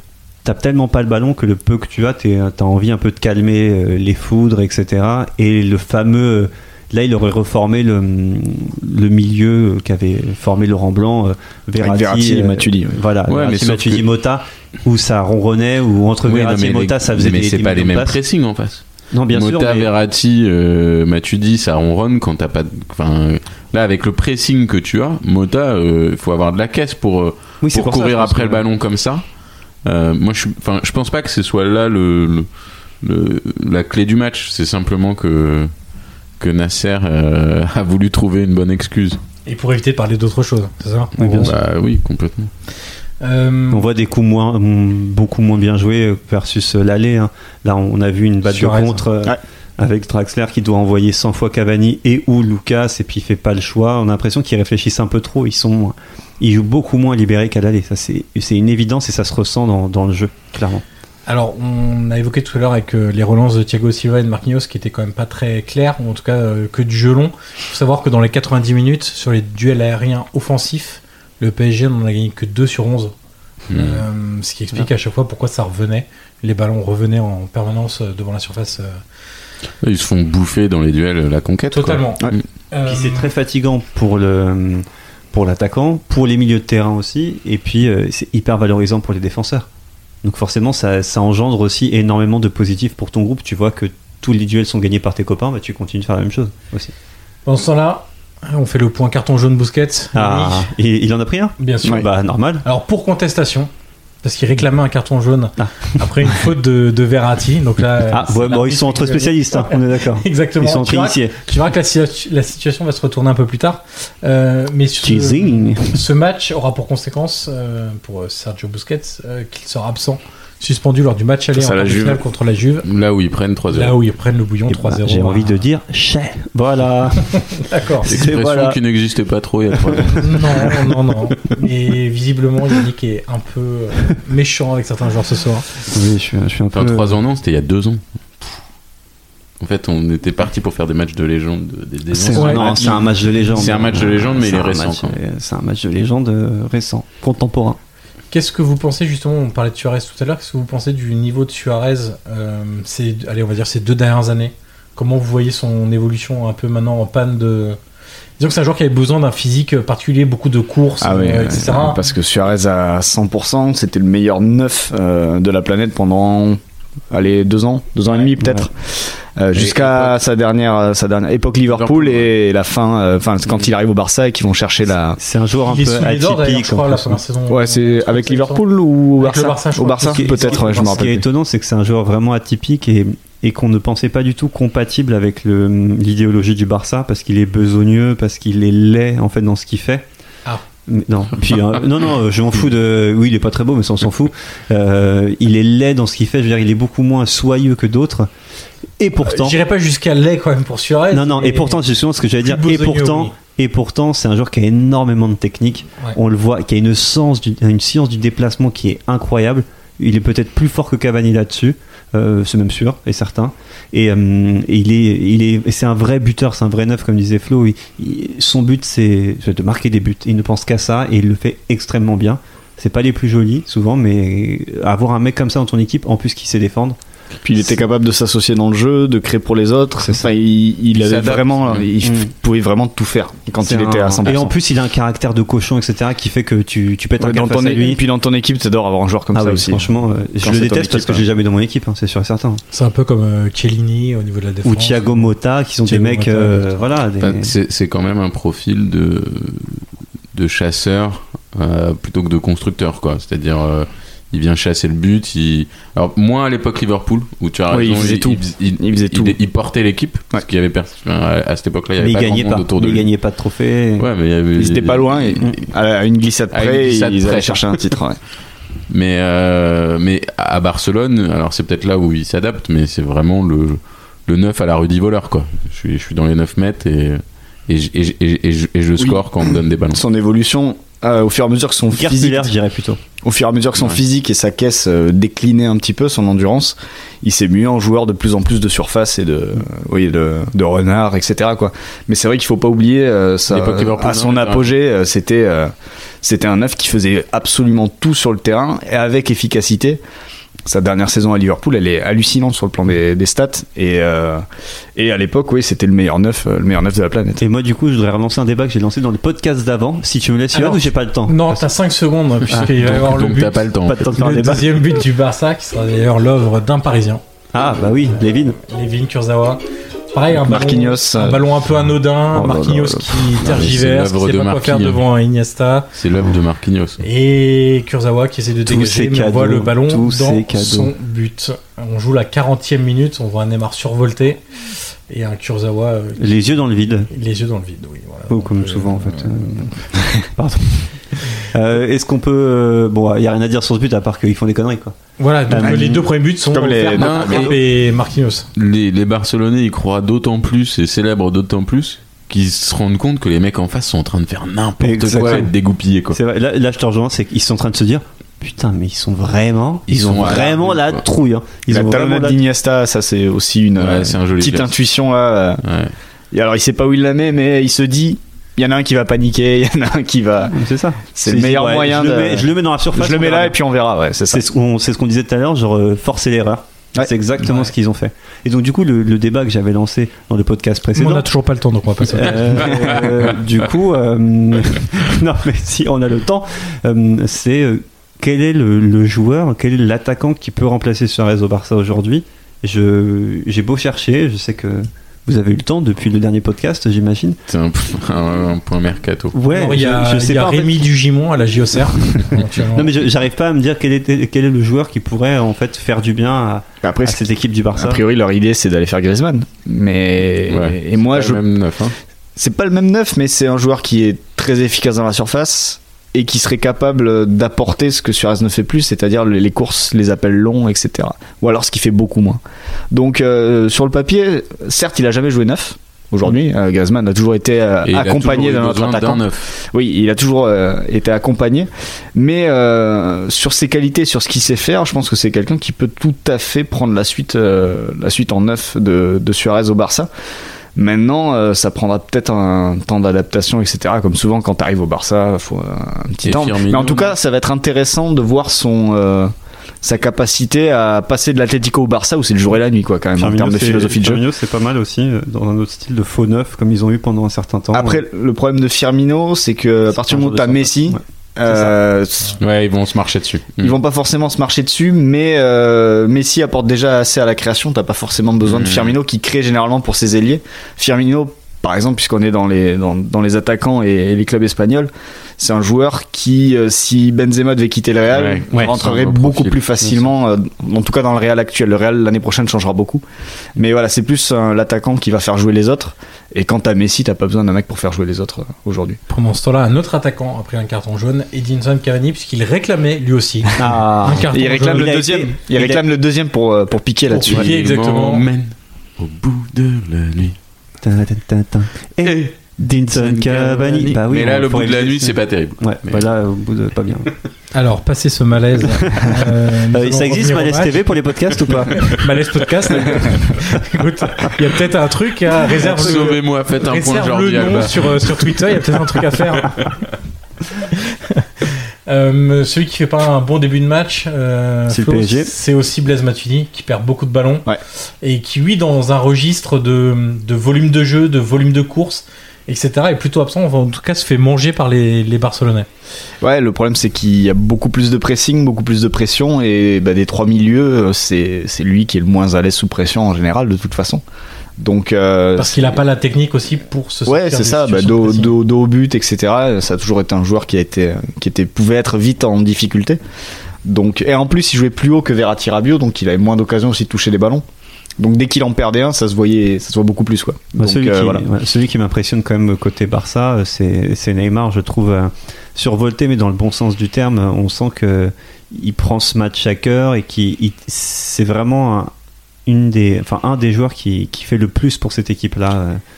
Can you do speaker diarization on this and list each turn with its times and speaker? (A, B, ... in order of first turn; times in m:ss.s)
0:00.4-0:18.2 A
0:11.8-0:13.0 B
0:13.3-0:14.0 C
0:16.3-0:29.2 C
0:19.1-0:19.9 A
0:27.6-0:28.6 A
0:29.8-0:32.5 C
0:33.0-0:35.7 C
0:36.4-0:39.2 C
0:39.5-0:41.5 D
0:41.2-0:41.6 A
0:41.2-0:42.5 C
0:43.2-0:43.9 D
0:43.7-1:00.8 A
0:48.5-0:49.0 D
1:01.3-1:13.1 D
1:13.7-1:14.0 C
1:13.7-1:19.0 D
1:19.8-1:22.4 C
1:21.7-1:23.3 D
1:22.9-1:29.7 A
1:30.2-1:36.9 A
1:37.5-1:40.7 D
1:40.1-1:42.6 A
1:41.6-1:42.1 D
1:42.6-1:43.7 D
1:44.2-2:02.9 D
1:45.6-1:46.4 A
1:48.1-1:51.4 A
1:55.0-1:56.0 A
2:01.5-2:02.2 B
2:02.8-2:04.0 C
2:03.7-2:05.6 D
2:04.7-2:07.4 A
2:07.6-2:08.1 D
2:08.0-2:08.8 A
2:08.1-2:10.5 C
2:09.9-2:11.0 A
2:10.1-2:15.7 D
2:15.9-2:17.2 A
2:16.7-2:18.5 C
2:19.6-2:25.2 C
2:22.1-2:27.8 A
2:22.4-2:22.6 D
2:22.6-2:23.0 B
2:28.3-2:37.8 D
2:38.4-2:42.0 D
2:41.0-2:46.6 B
2:47.1-2:55.2 B
2:48.1-2:48.3 D
2:48.4-2:48.7 A
2:49.5-2:50.2 C
2:51.7-2:52.3 C
2:55.2-2:57.2 A
2:55.6-2:58.6 D
2:57.5-3:01.2 B
2:59.2-3:01.1 D
3:00.0-3:10.0 A
3:10.9-3:18.3 A
3:19.0-3:19.6 A
3:19.2-3:21.8 D
3:21.1-3:47.0 A
3:22.4-3:23.3 D
3:47.4-3:54.5 B
3:51.0-3:51.9 C
3:52.0-3:52.3 A
3:53.6-3:58.0 A
3:57.2-3:59.8 B
3:59.3-4:02.6 A
4:00.4-4:01.2 B
4:02.7-4:05.3 D
4:04.6-4:07.5 A
4:05.8-4:06.8 D
4:07.2-4:23.1 C
4:17.7-4:19.4 B
4:22.0-4:24.1 A
4:24.0-4:25.6 C
4:24.6-4:28.2 B
4:26.5-4:28.0 C
4:28.9-4:40.0 C
4:39.0-4:42.5 B
4:41.9-4:43.0 A
4:43.2-4:55.7 B
4:53.5-4:54.7 C
4:56.2-5:00.0 B
5:00.7-5:04.4 B
5:05.0-5:07.4 B
5:07.4-5:11.6 A
5:10.5-5:17.2 D
5:12.5-5:12.9 A
5:12.6-5:14.1 C
5:13.8-5:14.8 A
5:17.5-5:18.6 A
5:18.7-5:19.6 D
5:20.1-5:25.9 D
5:20.3-5:21.4 B
5:22.3-5:23.8 A
5:23.4-5:25.0 C
5:25.9-5:27.0 C
5:27.0-5:34.4 D
5:28.6-5:30.9 A
5:35.1-5:36.2 D
5:36.2-5:37.1 A
5:37.1-5:39.9 D
5:38.3-5:45.0 A
5:45.2-5:48.5 D
5:45.5-5:46.1 A
5:46.5-5:47.6 B
5:47.0-5:47.6 C
5:48.6-5:56.2 C
5:54.8-5:55.5 A
5:56.1-6:02.4 A
5:59.9-6:01.0 C
6:01.7-6:05.6 B
6:03.8-6:04.7 C
6:05.6-6:05.9 C
6:06.3-6:10.6 B
6:10.5-6:13.6 A
6:11.2-6:14.4 B
6:14.3-6:21.3 A
6:21.0-6:23.0 D
6:22.0-6:37.4 A
6:37.5-6:39.4 C
6:39.3-6:40.8 A
6:39.5-6:42.9 D
6:42.7-6:48.0 A
6:46.8-6:51.4 B
6:50.5-6:52.0 C
6:52.4-7:02.4 B
7:02.9-7:20.1 B
7:07.8-7:09.5 C
7:20.8-7:34.2 B
7:26.2-7:27.2 C
7:33.2-7:38.0 A
7:37.7-7:42.4 B
7:39.9-7:41.8 A
7:42.4-7:43.8 C
7:43.6-8:03.0 B
7:48.4-7:49.0 C
7:58.1-7:59.7 C
8:03.6-8:09.0 B
8:09.1-8:14.9 D
8:13.6-8:15.8 A
8:14.3-8:17.5 B
8:17.1-8:18.3 D
8:17.3-8:20.4 C
8:20.8-8:27.1 A
8:22.0-8:26.1 C
8:27.5-8:30.9 D
8:28.9-8:32.1 A
8:31.5-8:39.6 D
8:32.7-8:33.5 A
8:35.6-8:38.3 C
8:35.6-8:36.1 A
8:40.7-8:47.5 D
8:44.7-8:45.3 A
8:48.0-8:55.7 D
8:56.2-9:04.0 B
9:04.6-9:05.8 B
9:05.4-9:08.4 D
9:07.1-9:13.0 B
9:13.6-9:17.4 B
9:18.0-9:21.2 B
9:20.6-9:31.9 A
9:32.5-9:35.8 A